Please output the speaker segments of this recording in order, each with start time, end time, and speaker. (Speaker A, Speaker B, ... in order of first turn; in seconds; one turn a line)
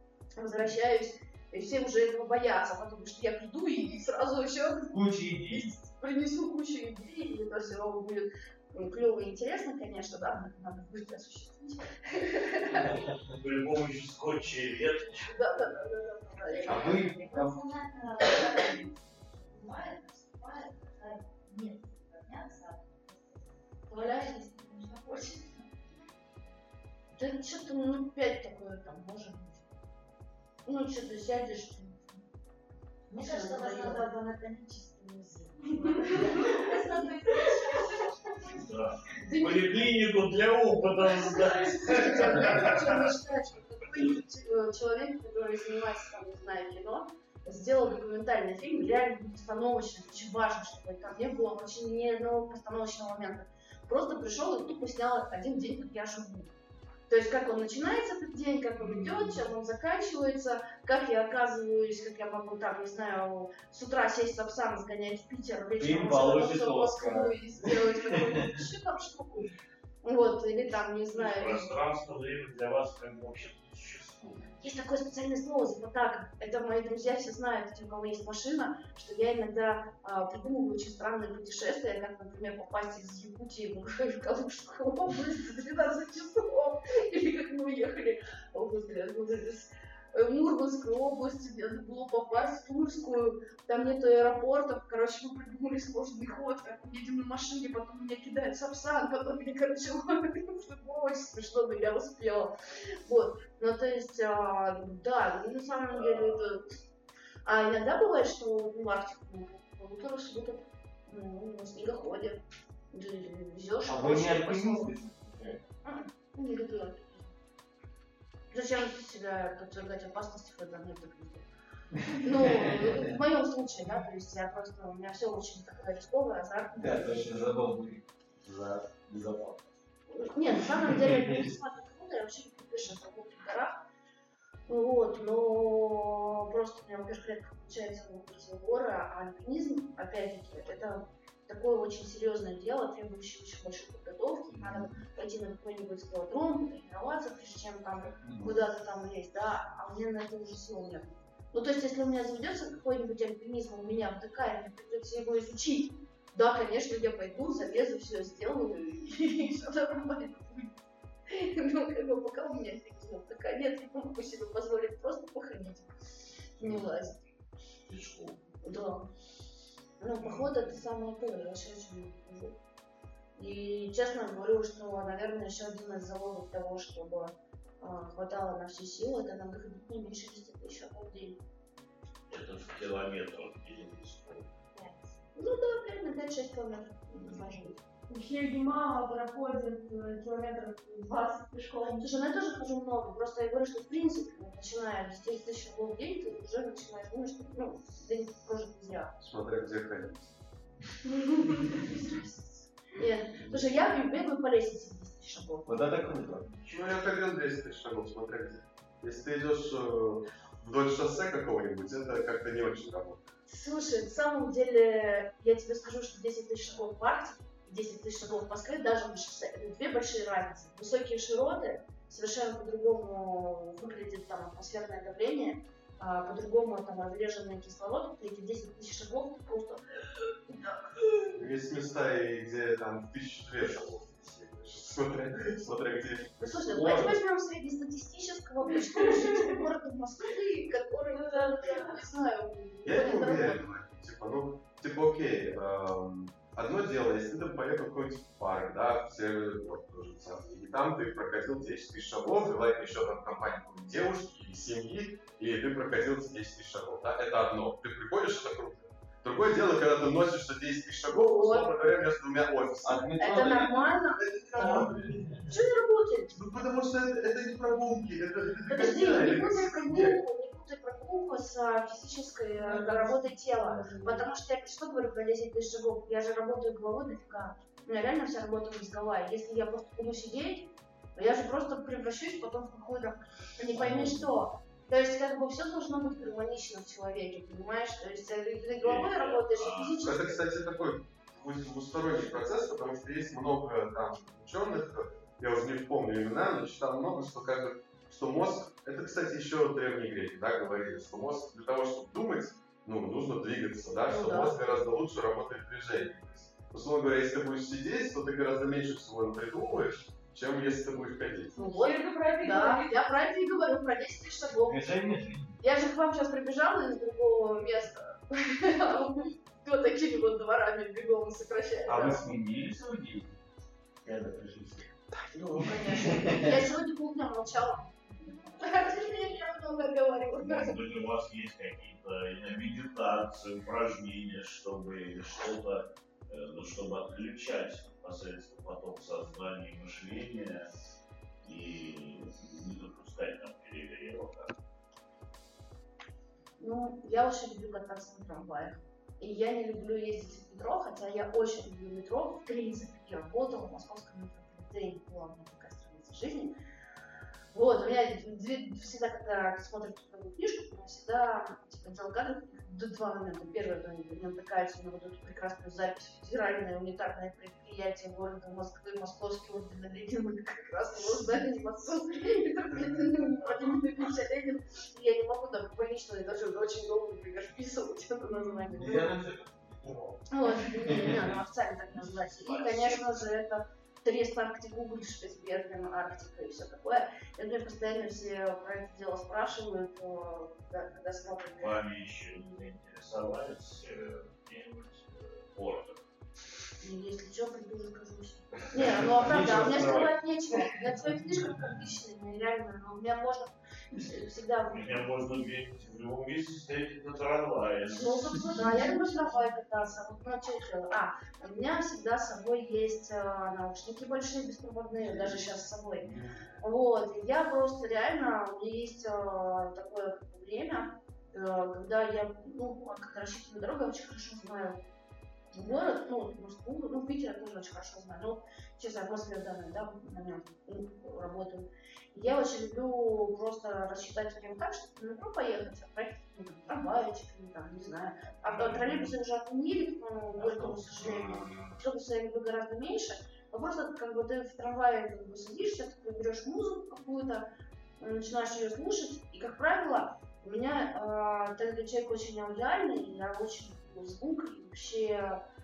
Speaker A: 0.4-12.9
Speaker B: 4.9-5.7
Speaker C: 13.2-15.3
Speaker A: 15.3-17.0
Speaker B: 16.7-17.6
Speaker D: 16.8-25.7
Speaker A: 23.9-24.3
Speaker A: 27.1-29.7
Speaker A: 30.7-32.2
Speaker D: 33.1-38.5
Speaker A: 33.2-34.0
Speaker A: 36.4-36.8
Speaker C: 38.5-43.1
Speaker A: 39.2-39.9
Speaker A: 41.2-56.5
Speaker A: 57.1-69.5
Speaker B: 58.8-59.4
Speaker B: 65.8-67.4
Speaker A: 70.0-71.7
Speaker C: 71.1-74.5
Speaker A: 74.6-102.5
Speaker A: 103.0-106.7
Speaker A: 107.5-112.4
Speaker A: 112.9-114.9
Speaker B: 113.9-115.6
Speaker A: 115.8-117.3
Speaker A: 118.5-121.5
Speaker A: 122.1-127.4
Speaker B: 122.1-123.1
Speaker B: 126.8-128.0
Speaker E: 128.5-129.2
Speaker B: 129.1-129.6
Speaker A: 130.1-133.8
Speaker B: 130.8-131.4
Speaker A: 134.7-160.7
Speaker B: 144.6-144.9
Speaker B: 148.2-148.5
Speaker A: 161.3-165.9
Speaker A: 166.6-167.2
Speaker C: 167.9-168.4
Speaker A: 168.6-169.1
Speaker A: 170.0-172.6
Speaker C: 170.2-170.5
Speaker A: 173.4-181.4
Speaker C: 182.3-184.5
Speaker A: 185.3-187.8
Speaker C: 187.2-187.5
Speaker F: 188.1-192.2
Speaker A: 192.0-199.1
Speaker E: 199.2-200.3
Speaker F: 201.3-201.9
Speaker A: 201.5-206.0
Speaker B: 205.7-206.5
Speaker E: 205.8-213.3
Speaker A: 213.5-231.3
Speaker E: 231.3-236.8
Speaker A: 236.4-243.7
Speaker B: 236.7-237.2
Speaker F: 238.9-239.5
Speaker F: 241.2-242.0
Speaker E: 242.8-263.1
Speaker A: 261.1-261.7
Speaker B: 262.8-263.8
Speaker A: 263.2-266.4
Speaker E: 264.1-265.5
Speaker B: 264.6-265.4
Speaker E: 266.3-270.2
Speaker A: 268.7-290.4
Speaker B: 272.6-274.2
Speaker B: 283.7-284.3
Speaker C: 288.8-290.1
Speaker E: 290.0-311.6
Speaker A: 304.0-304.6
Speaker F: 311.6-313.0
Speaker A: 311.6-314.9
Speaker B: 314.6-315.6
Speaker A: 315.6-322.3
Speaker B: 321.9-323.3
Speaker B: 324.3-324.6
Speaker A: 325.4-330.8
Speaker B: 325.9-326.4
Speaker C: 330.4-340.7
Speaker C: 341.4-344.5
Speaker A: 346.6-356.6
Speaker A: 357.5-379.1
Speaker B: 378.7-379.2
Speaker C: 378.8-380.2
Speaker A: 380.3-391.8
Speaker B: 380.9-381.3
Speaker C: 382.4-383.2
Speaker C: 391.6-396.0
Speaker A: 396.8-405.3
Speaker B: 398.8-400.1
Speaker C: 404.7-408.6
Speaker A: 408.0-416.1
Speaker B: 416.1-416.4
Speaker A: 416.6-424.8
Speaker A: 425.5-455.4
Speaker B: 440.4-441.6